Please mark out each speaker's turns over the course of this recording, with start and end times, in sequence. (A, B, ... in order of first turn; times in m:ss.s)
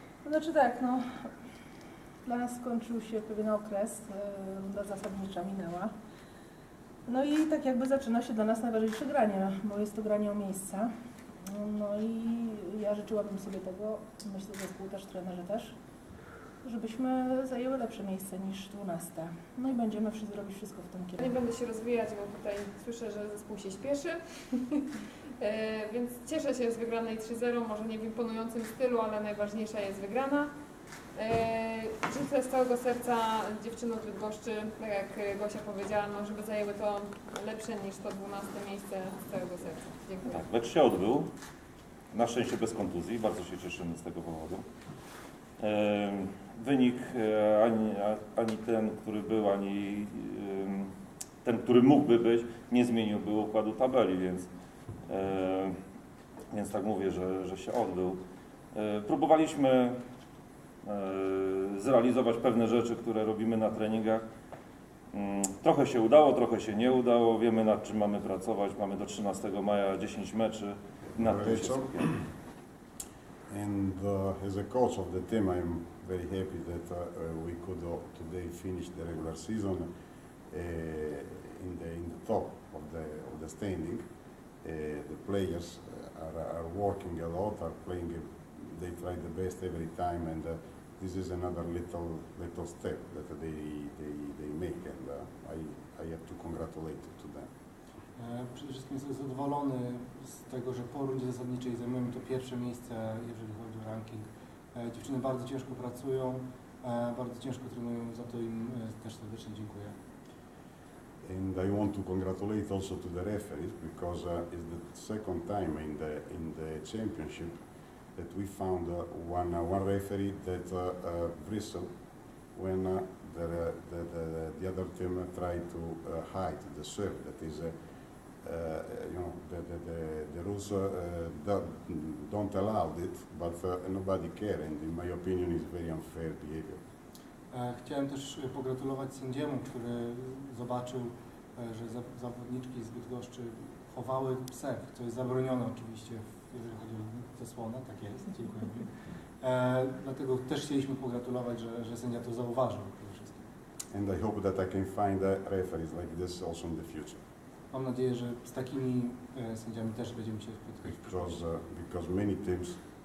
0:00.2-0:01.3 A
0:02.2-0:05.9 A
0:07.1-0:10.9 A
0:11.4-0:15.7 A
0:16.6-0:21.3 A
0:21.2-0:24.9 B
0:25.4-0:30.5 B
0:31.1-0:40.4 B
0:40.2-0:41.3 C
0:42.1-0:44.6 C
0:45.6-0:50.9 C
0:51.4-0:54.5 C
0:55.1-0:55.8 C
0:56.5-0:58.2 C
0:58.7-1:00.0 C
1:00.8-1:04.2 C
1:05.1-1:12.1 C
1:11.1-1:12.2 D
1:13.5-1:19.9 D
1:20.5-1:24.0 D
1:24.6-1:37.5 D
1:38.2-1:50.0 E
1:51.2-1:57.6 D
1:58.2-2:01.9 D
2:02.5-2:07.7 D
2:08.4-2:16.8 D
2:17.5-2:33.5 E
2:33.9-2:37.2 D
2:37.7-2:41.4 E
2:40.8-2:42.8 D